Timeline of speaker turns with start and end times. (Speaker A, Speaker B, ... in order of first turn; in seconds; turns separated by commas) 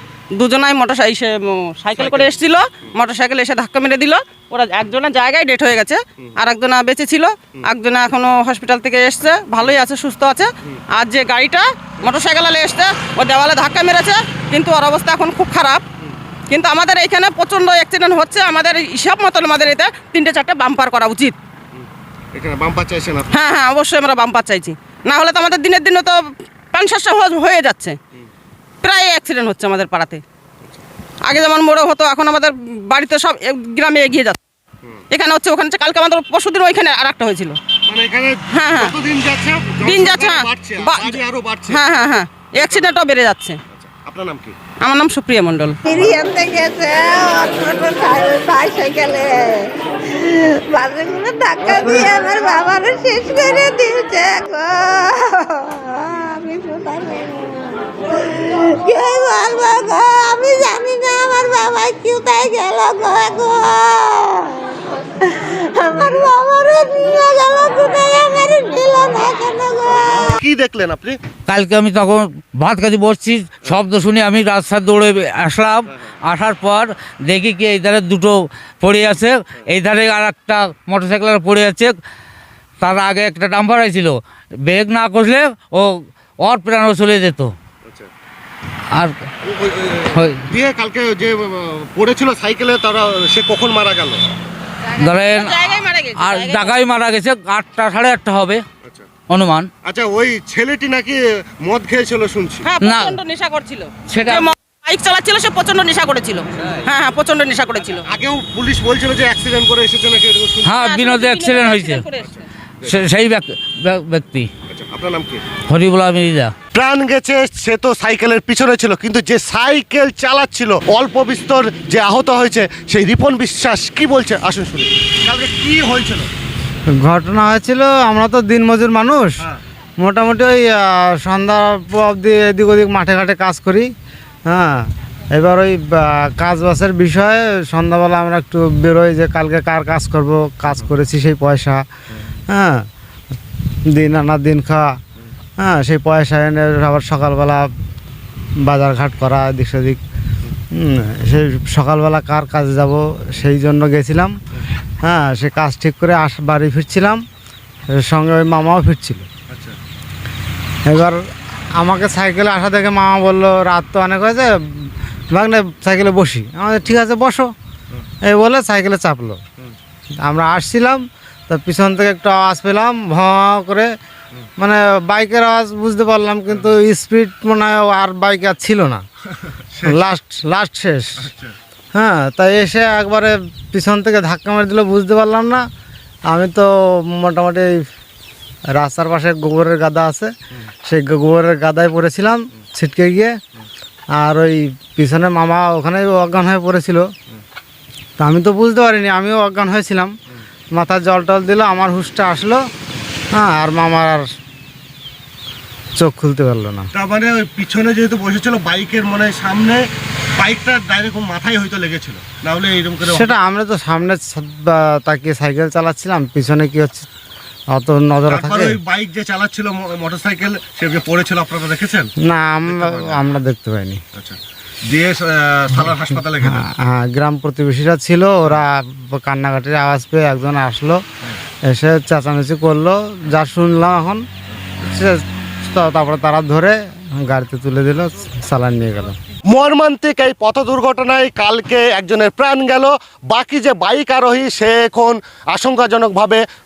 Speaker A: 0.4-15.8, Speaker B: 2.0-2.9, Speaker A: 16.5-21.4, Speaker B: 21.8-23.3, Speaker A: 23.3-26.2, Speaker A: 26.7-28.0, Speaker A: 28.8-30.2, Speaker A: 31.2-34.4, Speaker A: 35.1-37.6, Speaker B: 37.9-41.8, Speaker A: 38.5-38.9, Speaker A: 39.8-41.2, Speaker A: 41.7-43.6, Speaker B: 42.6-42.9, Speaker B: 43.7-44.6, Speaker A: 44.8-45.8, Speaker C: 45.9-70.3, Speaker B: 70.2-71.2, Speaker D: 71.5-82.0, Speaker D: 82.8-87.5, Speaker B: 89.5-94.2, Speaker D: 90.1-90.4, Speaker A: 95.0-96.8, Speaker D: 95.0-98.6, Speaker B: 98.8-99.1, Speaker D: 99.3-99.7, Speaker B: 99.8-102.7, Speaker A: 102.7-108.0, Speaker D: 102.8-103.2, Speaker D: 104.1-104.5, Speaker B: 108.1-110.7, Speaker D: 110.6-112.0, Speaker A: 110.7-112.5, Speaker D: 112.8-114.5, Speaker B: 114.7-115.4, Speaker D: 115.7-116.5, Speaker B: 116.7-126.3, Speaker E: 127.0-129.4, Speaker E: 130.0-133.9, Speaker E: 134.5-141.8, Speaker E: 142.5-142.9, Speaker E: 143.9-144.9, Speaker E: 145.6-147.7, Speaker E: 148.7-150.0, Speaker E: 150.7-154.3, Speaker E: 155.0-157.2, Speaker E: 157.9-159.3, Speaker B: 159.5-159.8, Speaker E: 160.9-161.2, Speaker E: 161.8-167.5, Speaker E: 168.2-169.4, Speaker E: 170.2-173.9, Speaker E: 174.6-179.0, Speaker B: 179.6-180.0, Speaker E: 179.8-181.3, Speaker B: 181.2-181.5, Speaker E: 181.9-185.7, Speaker E: 186.3-187.8, Speaker E: 188.8-190.3, Speaker E: 190.8-193.3, Speaker E: 194.2-197.1, Speaker E: 198.2-200.1, Speaker E: 200.7-202.6, Speaker E: 203.3-204.2, Speaker E: 206.0-206.9, Speaker B: 206.9-209.8, Speaker B: 210.4-213.3, Speaker E: 213.1-217.1, Speaker E: 217.7-218.8, Speaker B: 218.3-222.1, Speaker E: 222.2-224.0, Speaker B: 222.7-223.2, Speaker B: 224.2-226.7, Speaker E: 226.4-231.0, Speaker E: 231.7-234.2, Speaker E: 234.8-239.2, Speaker B: 239.5-246.4